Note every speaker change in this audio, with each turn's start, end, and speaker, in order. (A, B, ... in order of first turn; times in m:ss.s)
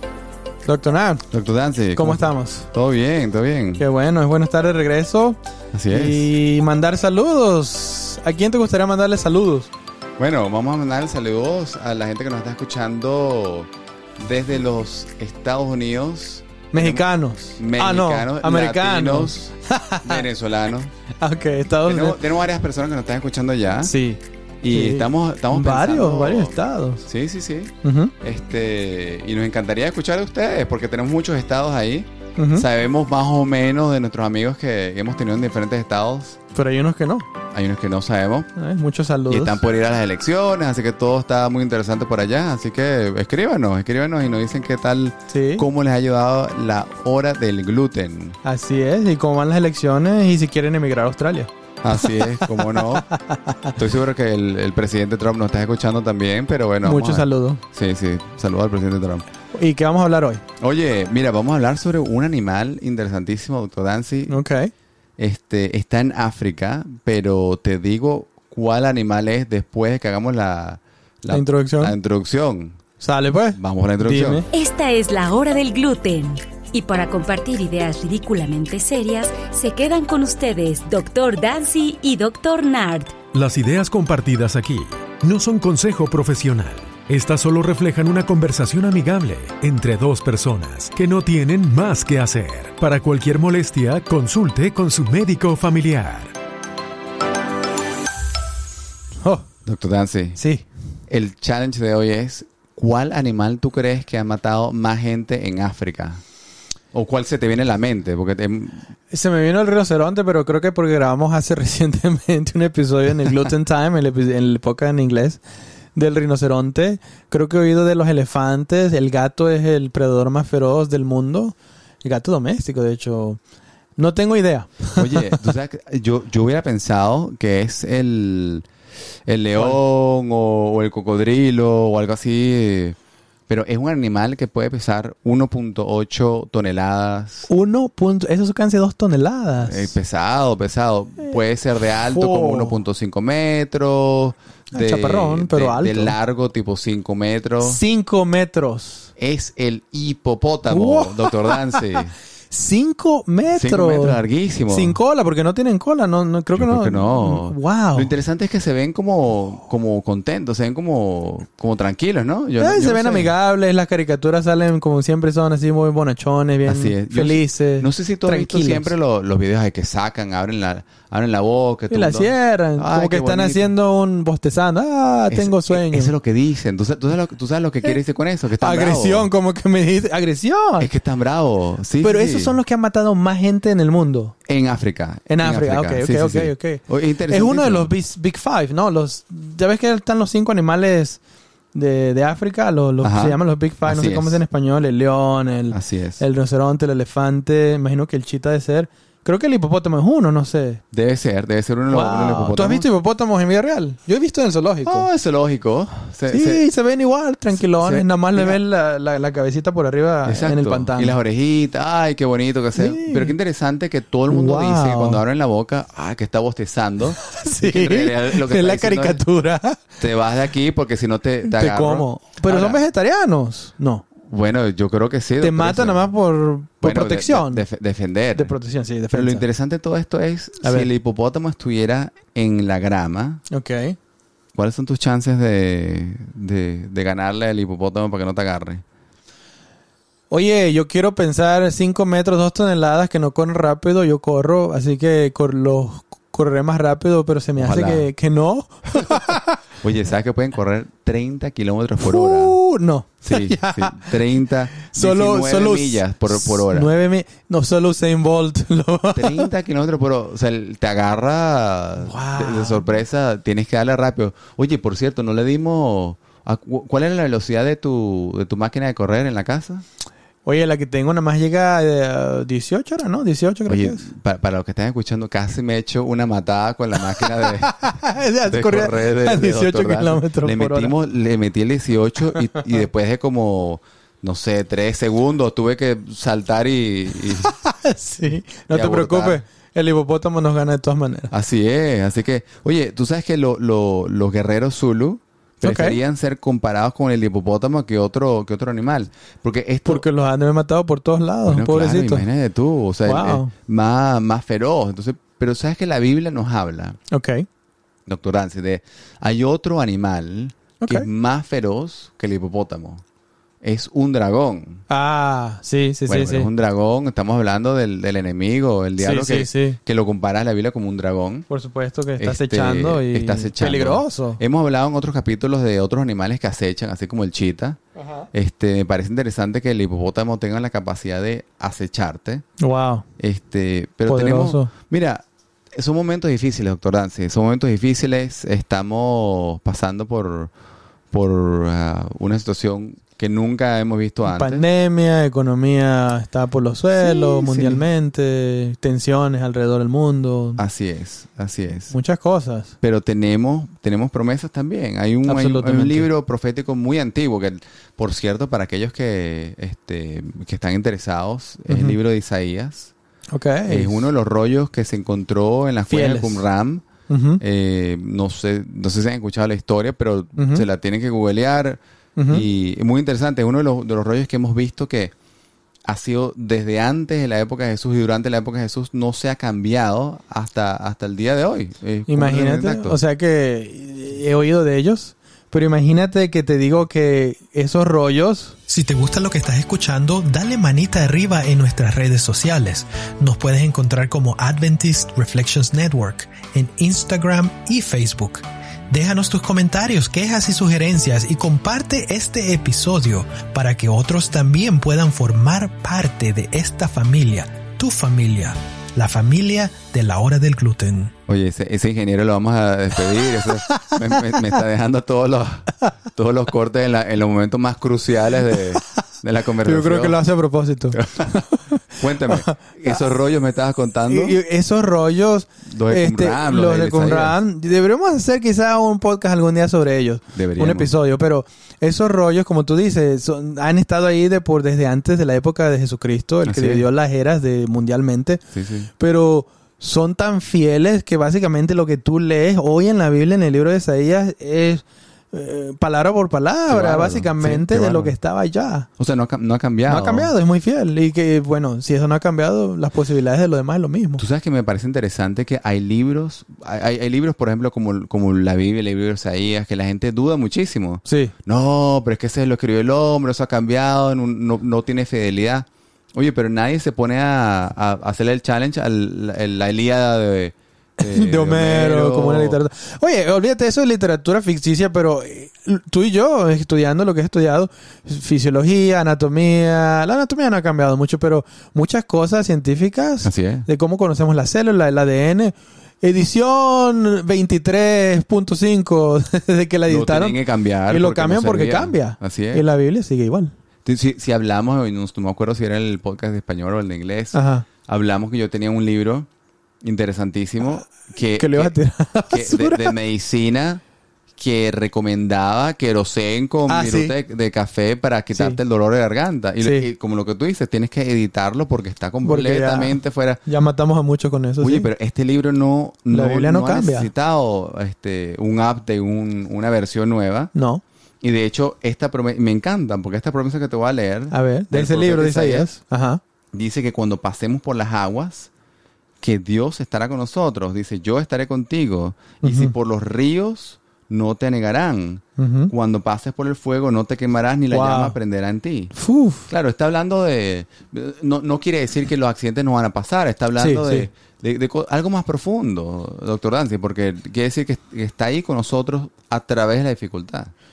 0:00.6-0:01.2 A
0:01.3-0:03.8 B
0:01.9-0:02.7 A
0:03.8-0:09.7 A
0:05.7-0:06.3 B
0:10.2-0:20.9 B
0:16.7-0:20.2 A
0:21.2-0:22.2 A
0:21.8-0:23.9 B
0:23.8-0:27.0 A
0:24.6-0:36.4 B
0:27.8-0:28.1 A
0:32.4-0:32.6 A
0:36.5-0:37.3 A
0:37.5-0:38.5 B
0:38.6-0:39.6 A
0:39.3-0:48.4 B
0:45.3-0:45.7 A
0:48.4-0:51.5 A
0:51.8-0:53.1 B
0:52.0-0:53.7 A
0:53.7-0:59.2 B
0:56.8-0:57.6 A
0:59.5-1:00.4 A
1:00.6-1:04.4 B
1:04.3-1:04.7 A
1:05.2-1:12.8 B
1:11.3-1:12.0 A
1:13.0-1:14.5 A
1:13.5-1:14.4 B
1:14.5-1:23.2 C
1:23.3-1:36.3 D
1:39.6-1:40.4 B
1:40.4-1:40.6 A
1:41.1-1:46.2 B
1:46.9-1:48.9 B
1:49.1-1:55.4 A
1:55.9-2:03.4 A
2:04.0-2:05.4 A
2:05.0-2:08.6 B
2:09.3-2:13.0 B
2:13.5-2:17.5 B
2:17.5-2:19.9 A
2:19.6-2:27.8 B
2:22.0-2:22.8 A
2:24.7-2:26.2 A
2:27.6-2:29.1 A
2:29.2-2:32.2 B
2:30.7-2:32.0 A
2:32.5-2:38.1 A
2:33.5-2:35.0 B
2:36.5-2:43.3 B
2:42.6-2:48.9 A
2:46.6-2:53.7 B
2:51.9-2:56.1 A
2:55.3-2:59.3 B
2:58.6-3:00.9 A
3:00.8-3:02.6 B
3:02.0-3:04.3 A
3:04.5-3:07.9 B
3:05.3-3:11.2 A
3:11.7-3:20.8 A
3:13.0-3:14.4 B
3:15.7-3:16.2 B
3:20.9-3:22.8 B
3:21.9-3:25.1 A
3:24.8-3:26.6 B
3:26.3-3:31.2 A
3:27.6-3:28.6 B
3:30.2-3:39.2 B
3:32.7-3:33.4 A
3:34.3-3:35.2 A
3:37.1-3:39.8 A
3:40.0-3:42.8 B
3:41.4-3:44.0 A
3:44.3-3:46.0 B
3:45.4-3:47.6 A
3:46.8-3:48.5 B
3:48.3-3:49.4 A
3:49.1-3:53.4 B
3:50.6-3:50.9 A
3:53.5-3:54.0 A
3:54.5-3:58.8 B
4:00.3-4:09.6 A
4:07.6-4:08.1 B
4:09.8-4:12.6 B
4:12.0-4:14.2 A
4:13.2-4:16.9 B
4:14.8-4:19.5 A
4:19.1-4:29.8 B
4:22.0-4:23.0 A
4:30.4-4:34.0 A
4:33.7-4:37.8 B
4:37.4-4:40.9 A
4:38.4-4:47.5 B
4:47.4-4:51.3 A
4:48.7-4:49.4 B
4:51.3-5:00.0 B
4:55.6-4:56.0 A
4:59.8-5:02.3 A
5:01.4-5:07.0 B
5:03.0-5:03.5 A
5:07.1-5:07.4 A
5:08.0-5:13.0 B
5:10.8-5:11.1 A
5:13.6-5:14.8 B
5:14.9-5:16.5 A
5:16.1-5:21.5 B
5:19.0-5:19.8 A
5:21.5-5:24.4 A
5:22.2-5:27.8 B
5:28.0-5:28.2 A
5:28.3-5:32.4 B
5:32.6-5:33.0 A
5:33.2-5:35.2 B
5:34.0-5:34.7 A
5:35.7-5:40.5 B
5:41.1-5:44.6 B
5:44.2-5:50.6 A
5:47.0-5:47.8 B
5:50.6-5:51.9 B
5:51.9-5:52.7 A
5:52.8-6:02.9 B
5:55.2-5:56.1 A
6:01.7-6:02.0 A
6:03.3-6:04.1 A
6:03.7-6:06.8 B
6:05.9-6:06.4 A
6:07.1-6:07.4 A
6:07.4-6:15.1 B
6:10.4-6:10.6 A
6:12.2-6:12.4 A
6:15.8-6:23.0 B
6:22.1-6:29.1 A
6:28.7-6:38.4 E
6:29.7-6:32.8 A
6:33.6-6:34.4 A
6:35.4-6:35.7 A
6:38.9-6:48.5 E
6:39.0-6:40.4 A
6:41.1-6:48.4 A
6:49.0-6:51.0 A
6:49.7-6:50.0 E
6:51.3-7:00.2 B
6:59.6-7:02.6 A
7:00.9-7:04.4 B
7:04.1-7:18.4 A
7:05.6-7:07.4 B
7:10.3-7:10.9 B
7:16.4-7:16.8 B
7:18.5-7:18.9 B
7:19.0-7:28.9 A
7:26.7-7:28.1 B
7:29.0-7:30.3 B
7:29.8-7:34.2 A
7:34.2-7:52.6 B
7:41.0-7:41.3 A
7:51.0-8:13.5 A
8:03.2-8:03.7 B
8:09.9-8:12.6 B
8:13.8-8:19.3 B
8:17.3-8:17.7 A
8:19.8-8:21.8 B
8:21.3-8:23.0 A
8:22.3-8:23.8 B
8:24.4-8:33.4 B
8:26.7-8:27.1 A
8:28.3-8:28.6 A
8:29.6-8:29.9 A
8:32.2-8:34.9 A
8:34.6-8:40.5 B
8:36.1-8:37.1 A
8:40.5-8:40.8 A
8:41.2-8:45.7 B
8:44.3-8:46.2 A
8:46.5-8:48.5 B
8:49.2-8:58.9 B
8:52.4-8:52.7 A
8:55.4-8:55.7 A
8:57.7-8:58.2 A
8:58.9-8:59.5 A
8:59.5-9:10.5 B
9:03.6-9:04.1 A